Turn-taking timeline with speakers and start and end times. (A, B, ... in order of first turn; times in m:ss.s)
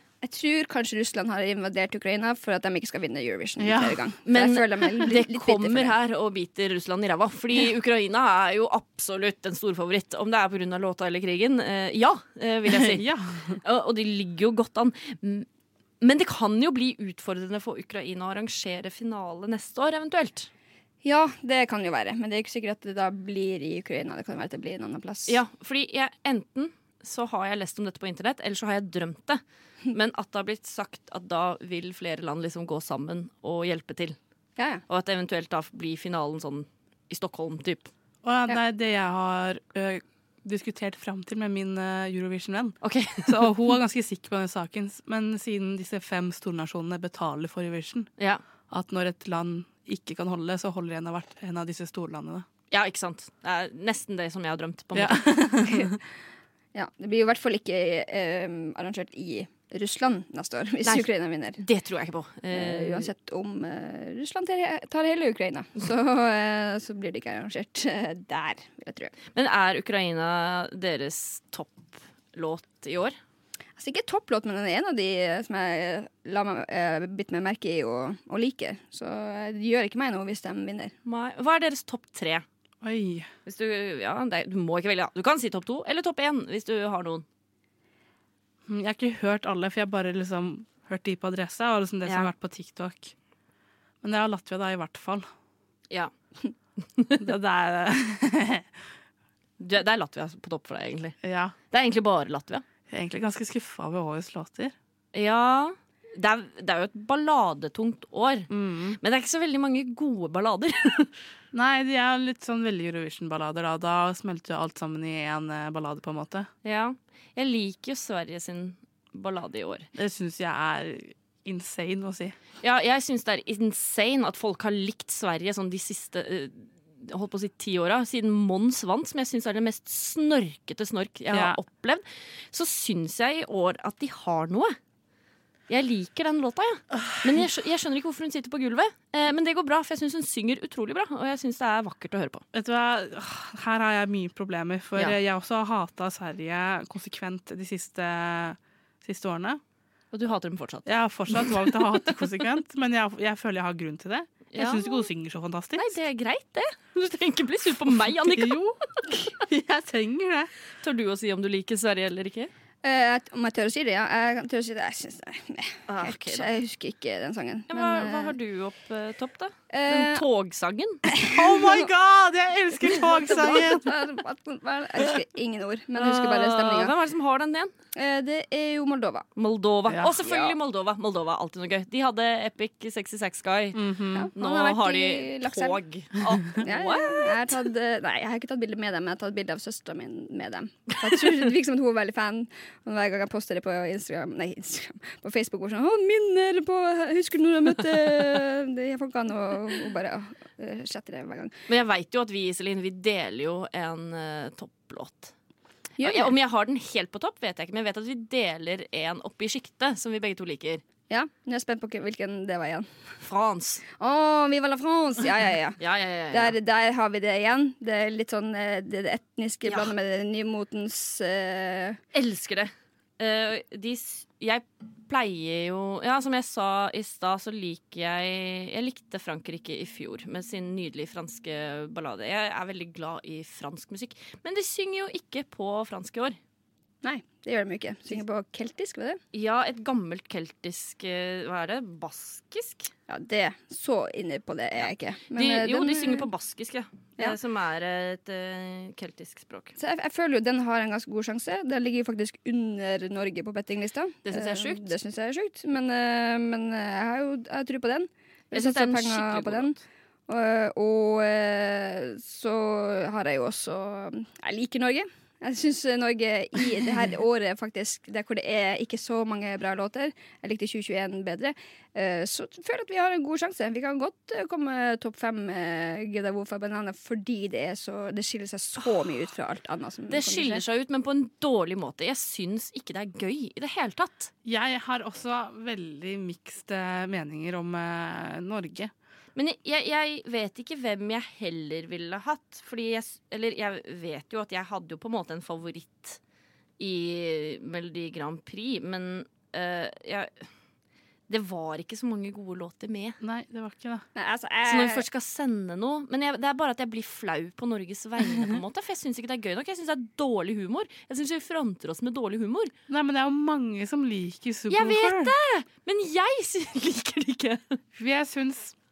0:00.2-0:05.9 A
0:03.6-0:04.0 B
0:04.3-0:13.1 C
0:12.7-0:13.6 B
0:13.6-0:15.5 C
0:16.0-0:20.5 C
0:21.0-0:25.4 A
0:25.3-0:34.2 C
0:34.6-0:34.8 A
0:34.9-0:37.9 C
0:38.2-0:48.1 B
0:42.8-0:43.5 C
0:48.2-0:48.4 C
0:48.7-0:52.5 B
0:52.7-0:55.3 C
0:55.0-0:56.0 B
0:56.8-1:01.6 A
1:00.8-1:03.1 C
1:02.5-1:09.1 A
1:09.3-1:13.2 C
1:13.8-1:20.9 A
1:21.0-1:22.4 C
1:22.8-1:23.3 B
1:23.5-1:27.3 C
1:28.7-1:33.1 B
1:34.0-1:35.3 B
1:36.8-1:37.2 C
1:37.2-1:38.7 B
1:39.6-1:41.2 C
1:41.2-1:41.6 B
1:41.7-1:42.6 C
1:42.9-1:44.7 B
1:45.1-1:51.2 C
1:48.5-1:49.0 B
1:51.5-1:56.5 B
1:56.6-1:59.9 C
2:00.0-2:02.4 B
2:02.6-2:14.8 C
2:11.3-2:11.6 B
2:15.7-2:22.4 C
2:22.5-2:29.6 B
2:30.1-2:31.7 C
2:30.9-2:35.9 B
2:34.5-2:35.1 C
2:35.8-2:38.6 C
2:38.3-2:38.8 B
2:39.4-2:40.6 B
2:40.8-2:42.5 C
2:42.8-2:48.4 A
2:45.9-2:46.5 C
2:47.7-2:51.0 C
2:49.7-2:50.2 A
2:51.1-2:51.9 A
2:51.2-2:53.9 B
2:53.2-2:56.9 A
2:56.0-2:57.7 C
2:58.0-2:59.3 A
2:59.4-3:03.8 C
3:00.0-3:00.6 A
3:03.8-3:04.3 B
3:04.2-3:05.8 A
3:04.4-3:07.6 C
3:06.6-3:21.6 A
3:21.7-3:25.3 C
3:26.0-3:26.4 A
3:26.0-3:30.8 C
3:31.1-3:33.2 A
3:33.2-3:33.8 C
3:34.0-3:35.8 A
3:35.8-3:36.6 C
3:36.3-3:42.0 A
3:39.6-3:39.9 C
3:42.1-3:56.4 C
3:57.0-3:59.2 A
3:59.3-4:02.9 C
4:03.1-4:06.3 A
4:05.3-4:09.8 C
4:09.8-4:19.8 A
4:14.2-4:14.9 C
4:18.5-4:19.8 C
4:20.3-4:40.6 A
4:40.1-4:44.3 C
4:44.4-4:48.9 B
4:49.4-4:56.2 C
4:56.8-5:00.5 C
5:01.3-5:03.2 C
5:03.2-5:04.1 B
5:04.2-5:05.0 A
5:04.7-5:12.7 C
5:12.9-5:15.3 B
5:14.7-5:17.8 C
5:18.0-5:18.8 B